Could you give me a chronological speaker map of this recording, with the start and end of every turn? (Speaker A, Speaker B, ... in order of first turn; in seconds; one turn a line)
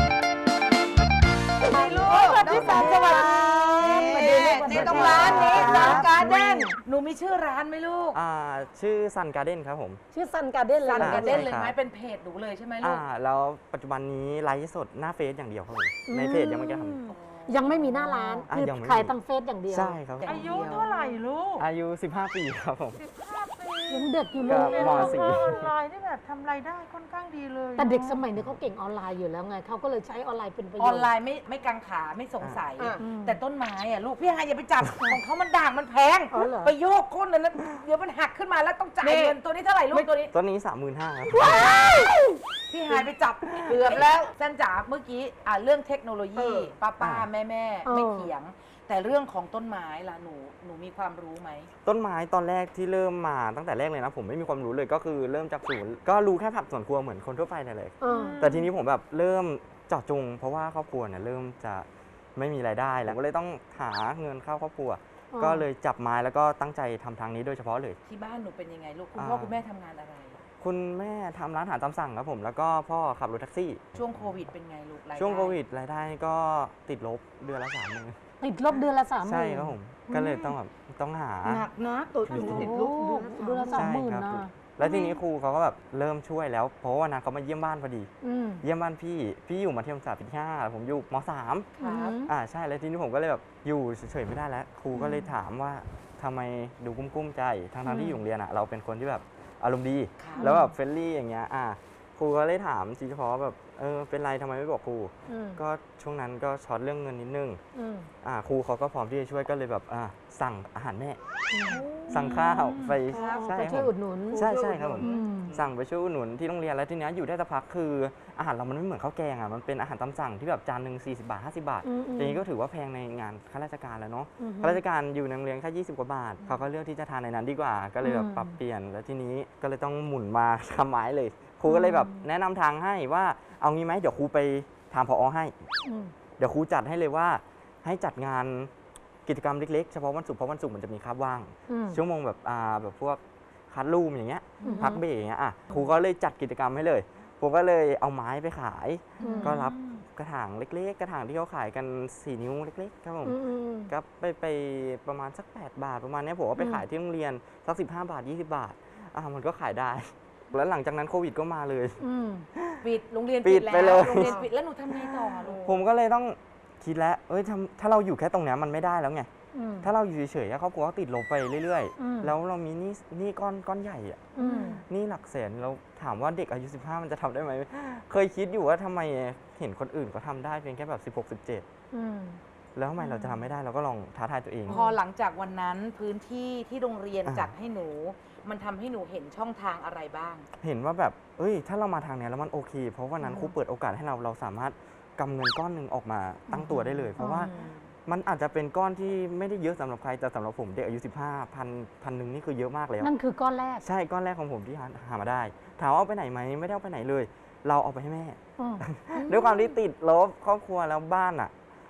Speaker A: 1.7-6.7
Speaker B: 1.7-2.6
Speaker C: 1.8-4.2
Speaker D: 2.0-6.8
Speaker B: 4.3-8.2
Speaker E: 4.7-6.3
Speaker E: 8.1-10.0
Speaker D: 10.1-11.5
Speaker B: 10.8-13.0
Speaker E: 10.9-11.8
Speaker E: 12.8-17.0
Speaker D: 16.1-20.0
Speaker B: 17.1-17.8
Speaker C: 18.0-18.4
Speaker E: 18.5-19.1
Speaker E: 19.7-20.8
Speaker B: 20.2-20.9
Speaker C: 20.2-21.7
Speaker E: 21.6-23.0
Speaker C: 23.0-28.2
Speaker D: 23.9-25.2
Speaker E: 24.4-25.7
Speaker D: 27.8-31.1
Speaker B: 30.8-40.3
Speaker A: 32.8-33.0
Speaker D: 33.0-33.4
Speaker D: 36.3-36.7
Speaker A: 39.0-39.4
Speaker E: 40.3-41.9
Speaker B: 41.4-42.1
Speaker A: 41.5-42.2
Speaker B: 42.7-51.7
Speaker A: 43.6-44.3
Speaker A: 46.3-46.7
Speaker E: 47.0-47.3
Speaker D: 47.8-48.3
Speaker E: 51.8-68.0
Speaker D: 58.0-58.4
Speaker C: 58.0-58.7
Speaker D: 65.3-65.7
Speaker B: 68.0-70.4
Speaker E: 69.1-69.6
Speaker E: 70.6-74.3
Speaker B: 74.0-75.5
Speaker E: 75.1-78.2
Speaker D: 78.4-80.5
Speaker E: 79.2-81.7
Speaker A: 81.4-83.9
Speaker E: 82.3-82.7
Speaker D: 82.3-84.5
Speaker E: 83.7-88.1
Speaker D: 88.2-88.6
Speaker E: 88.6-91.7
Speaker B: 91.8-92.2
Speaker D: 91.8-92.3
Speaker E: 92.2-107.6
Speaker D: 95.0-95.2
Speaker D: 97.8-98.2
Speaker B: 100.2-100.5
Speaker D: 100.4-100.7
Speaker D: 105.3-105.6
Speaker D: 107.7-108.1
Speaker E: 108.2-111.2
Speaker D: 111.5-112.4
Speaker C: 111.7-113.0
Speaker E: 112.1-135.5
Speaker D: 113.1-115.5
Speaker A: 114.3-115.6
Speaker D: 121.8-122.4
Speaker D: 124.4-124.8
Speaker D: 128.0-128.5
Speaker D: 131.7-132.2
Speaker D: 135.8-136.1
Speaker E: 136.4-138.7
Speaker E: 139.2-162.0
Speaker D: 141.7-142.0
Speaker C: 144.6-144.9
Speaker D: 144.6-145.0
Speaker D: 149.2-149.6
Speaker C: 149.2-150.0
Speaker D: 153.2-153.9
Speaker D: 156.6-156.8
Speaker D: 162.0-162.5
Speaker E: 162.5-162.8
Speaker B: 162.8-165.8
Speaker E: 163.4-169.3
Speaker A: 163.7-164.5
Speaker D: 169.5-169.9
Speaker E: 169.8-181.7
Speaker D: 172.0-172.3
Speaker D: 174.3-174.8
Speaker D: 181.9-182.4
Speaker E: 182.7-184.9
Speaker B: 184.7-190.5
Speaker D: 184.7-185.0
Speaker E: 187.2-187.5
Speaker E: 190.6-197.5
Speaker D: 193.2-193.5
Speaker B: 196.5-197.9
Speaker D: 197.2-197.5
Speaker E: 198.1-203.1
Speaker D: 203.0-203.8
Speaker E: 203.8-211.5
Speaker D: 208.6-209.7